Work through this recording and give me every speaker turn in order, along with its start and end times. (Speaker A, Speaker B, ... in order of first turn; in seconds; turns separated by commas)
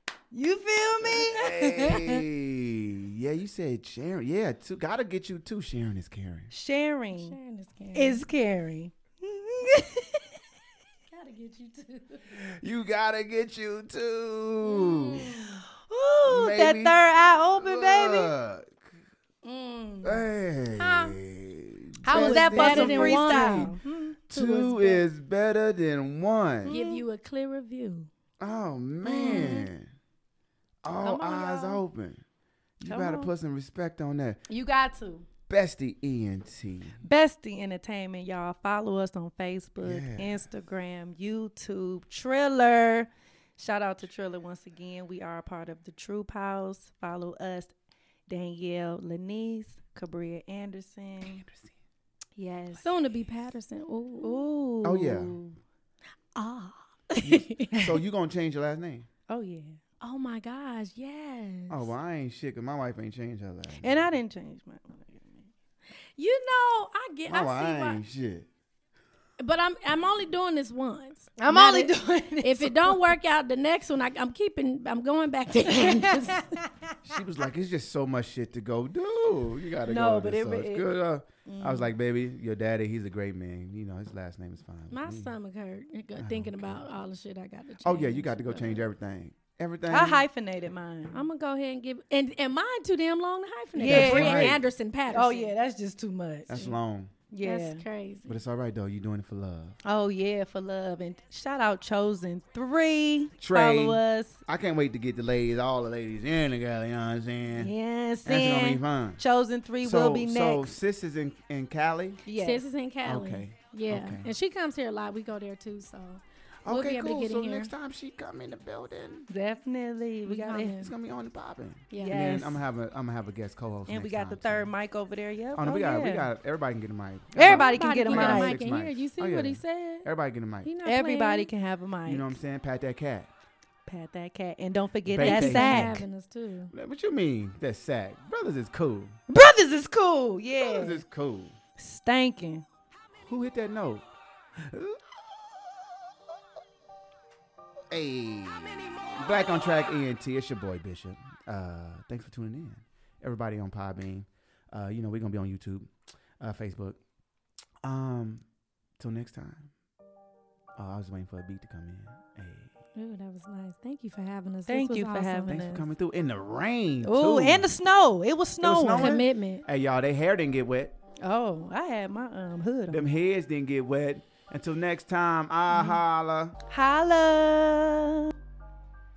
Speaker A: 0.3-1.9, Speaker B: 1.1-6.5, Speaker C: 1.3-2.2, Speaker A: 6.5-7.4, Speaker C: 7.1-8.2, Speaker A: 7.9-10.4, Speaker C: 11.1-12.4, Speaker B: 12.3-15.4, Speaker A: 14.8-18.3, Speaker C: 15.0-15.6, Speaker B: 16.3-18.8, Speaker C: 19.5-19.9, Speaker A: 19.5-19.8, Speaker B: 20.0-23.8, Speaker C: 20.8-21.2, Speaker A: 22.0-24.2, Speaker C: 22.1-23.7, Speaker B: 24.3-26.8, Speaker C: 24.3-25.1, Speaker A: 26.6-27.1, Speaker C: 26.7-28.1, Speaker B: 28.4-29.9, Speaker A: 29.0-29.7, Speaker B: 30.8-32.2, Speaker A: 31.0-31.8, Speaker B: 32.8-34.4, Speaker A: 32.9-33.3, Speaker A: 34.5-35.3, Speaker B: 35.5-37.0, Speaker A: 37.0-47.7, Speaker B: 39.8-40.4, Speaker A: 48.3-51.5, Speaker B: 51.2-51.8, Speaker A: 52.4-52.9, Speaker C: 52.8-54.5, Speaker A: 54.2-55.6, Speaker B: 54.8-55.4, Speaker C: 56.4-57.8, Speaker B: 57.2-59.1, Speaker A: 59.3-59.8, Speaker C: 60.0-61.9, Speaker B: 61.7-64.1, Speaker A: 63.8-65.5, Speaker C: 66.2-68.0, Speaker B: 67.3-68.5, Speaker C: 69.4-76.6, Speaker A: 71.4-73.0, Speaker A: 75.7-76.9, Speaker B: 77.0-85.3, Speaker A: 79.8-82.0, Speaker C: 84.9-88.9, Speaker B: 86.2-86.9, Speaker B: 87.8-90.3, Speaker A: 89.9-91.3, Speaker C: 91.1-95.6, Speaker A: 93.8-96.6, Speaker B: 93.8-94.6, Speaker B: 96.5-97.1, Speaker A: 97.3-97.9, Speaker C: 97.4-98.4, Speaker B: 98.3-99.8, Speaker A: 99.8-104.4, Speaker B: 103.4-107.7, Speaker A: 107.5-110.7, Speaker B: 108.2-109.2, Speaker B: 109.8-112.2, Speaker A: 112.2-112.7, Speaker C: 112.4-117.7, Speaker B: 113.0-114.3, Speaker B: 116.7-119.3, Speaker A: 119.3-120.9, Speaker C: 120.2-120.9, Speaker B: 120.8-124.7, Speaker C: 121.9-122.2, Speaker A: 121.9-122.6, Speaker A: 123.9-126.3, Speaker B: 125.5-130.7, Speaker A: 127.3-128.6, Speaker C: 127.4-130.1, Speaker C: 130.6-131.5, Speaker A: 130.8-132.4, Speaker B: 132.1-133.3, Speaker A: 133.9-136.1, Speaker B: 135.1-136.0, Speaker C: 135.3-136.7, Speaker B: 136.7-139.2, Speaker A: 139.3-141.0, Speaker B: 140.6-141.6, Speaker A: 141.8-142.7, Speaker B: 143.2-144.1, Speaker B: 144.6-145.2, Speaker B: 147.9-157.0, Speaker B: 157.8-158.4, Speaker B: 159.0-159.7, Speaker B: 160.8-162.8, Speaker C: 163.0-165.7, Speaker A: 164.7-165.9, Speaker B: 165.5-167.7, Speaker A: 167.0-169.2, Speaker B: 168.6-170.9, Speaker C: 168.9-169.7, Speaker A: 171.2-173.1, Speaker B: 172.9-176.6, Speaker A: 175.7-176.0, Speaker A: 176.7-178.3